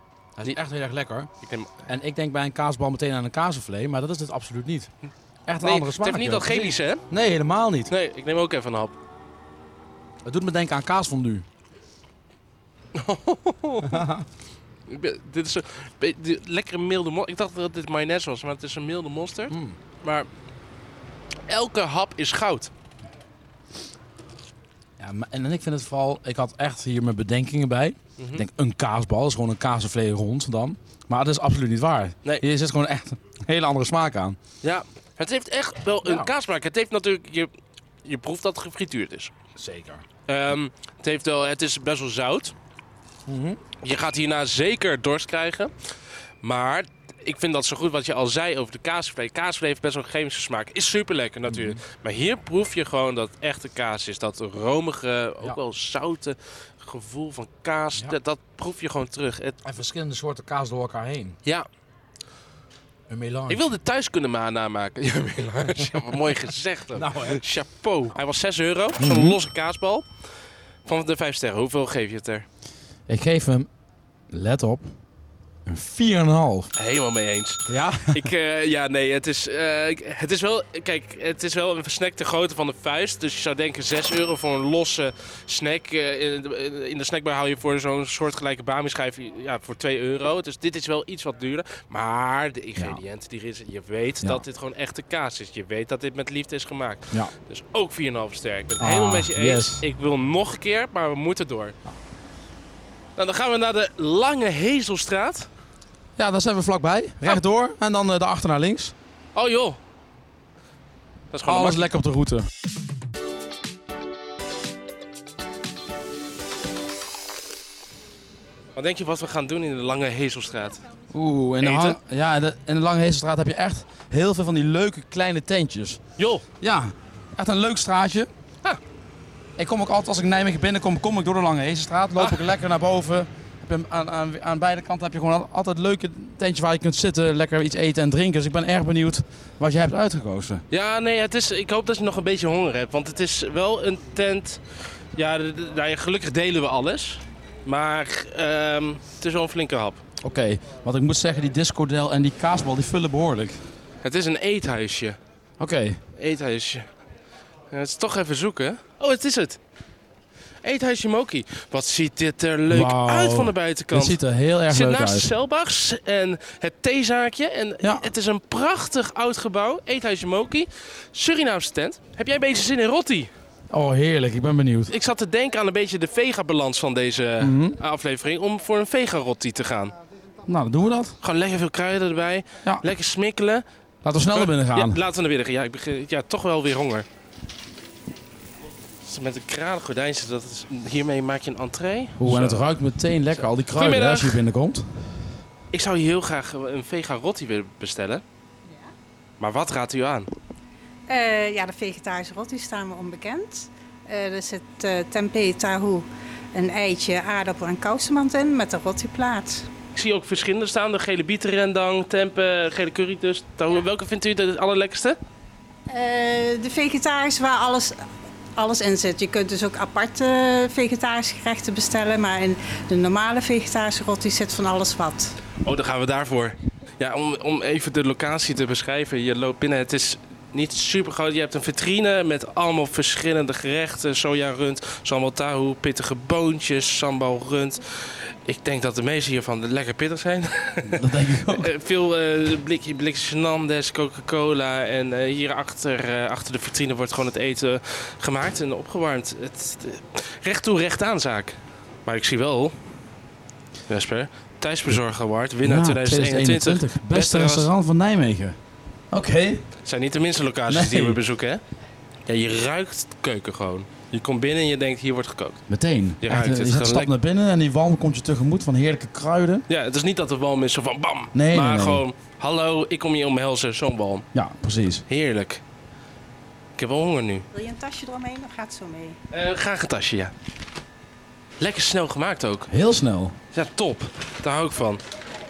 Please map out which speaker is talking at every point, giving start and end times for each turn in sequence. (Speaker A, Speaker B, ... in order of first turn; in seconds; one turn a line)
Speaker A: 0.4-1.3
Speaker B: 1.4-1.7
Speaker A: 1.9-4.9
Speaker A: 5.5-7.9
Speaker B: 5.6-7.0
Speaker B: 7.9-8.9
Speaker A: 10.2-11.4
Speaker B: 12.9-14.1
Speaker A: 13.8-14.2
Speaker B: 14.9-20.3
Speaker A: 19.5-19.8
Speaker B: 21.5-22.7
Speaker A: 25.0-34.4
Speaker B: 28.2-28.4
Speaker B: 34.6-37.5
Speaker A: 36.0-36.3
Speaker B: 38.0-39.3
Speaker A: 39.5-40.0
Speaker B: 40.3-42.5
Speaker A: 43.3-43.6
Speaker B: 43.8-45.7
Speaker B: 46.4-59.6
Speaker A: 51.5-51.8
Speaker A: 59.6-61.4
Speaker A: 63.1-63.7
Speaker B: 63.5-70.0
Speaker A: 66.9-67.4
Speaker A: 69.0-69.4
Speaker B: 70.8-72.5
Speaker A: 73.1-73.7
Speaker A: 74.3-74.9
Speaker A: 75.7-76.7
Speaker B: 76.8-101.7
Speaker A: 77.7-78.3
Speaker A: 92.8-93.0
Speaker A: 98.8-99.8
Speaker B: 103.2-105.5
Speaker A: 106.2-108.9
Speaker B: 109.3-109.8
Speaker B: 111.3-111.8
Speaker A: 111.5-112.5
Speaker B: 118.8-120.8
Speaker A: 121.1-126.0
Speaker B: 121.6-122.0
Speaker B: 126.2-126.4
Speaker A: 126.6-128.3
Speaker A: 129.6-140.6
Speaker B: 140.7-144.6
Speaker B: 145.2-150.0
Speaker A: 150.2-153.6
Speaker B: 154.0-155.2
Speaker A: 155.6-156.0
Speaker B: 156.2-156.8
Speaker B: 157.7-159.6
Speaker B: 160.6-173.3
Speaker A: 162.7-165.3
Speaker A: 167.8-168.1
Speaker A: 173.7-174.9
Speaker B: 174.9-179.9
Speaker A: 177.4-177.8
Speaker A: 180.4-181.2
Speaker B: 181.2-183.6
Speaker A: 184.0-185.0
Speaker B: 184.3-187.1
Speaker B: 189.0-192.7
Speaker A: 192.2-195.1
Speaker B: 193.7-194.4
Speaker B: 195.7-198.2
Speaker B: 199.4-200.3
Speaker C: 201.1-209.7
Speaker B: 209.9-215.2
Speaker C: 215.9-218.0
Speaker C: 218.6-225.3
Speaker B: 225.6-252.7
Speaker A: 240.9-241.7
Speaker B: 253.9-257.7
Speaker A: 255.6-258.6
Speaker A: 259.1-259.6
Speaker B: 259.8-261.6
Speaker A: 260.7-261.2
Speaker B: 262.3-265.6
Speaker A: 265.7-269.6
Speaker B: 266.2-267.1
Speaker B: 269.7-274.3
Speaker A: 271.3-272.0
Speaker A: 274.3-275.0
Speaker B: 275.1-275.6
Speaker B: 276.8-277.5
Speaker C: 277.5-279.2
Speaker B: 279.3-280.3
Speaker B: 281.6-282.7
Speaker A: 282.7-283.4
Speaker B: 283.5-285.0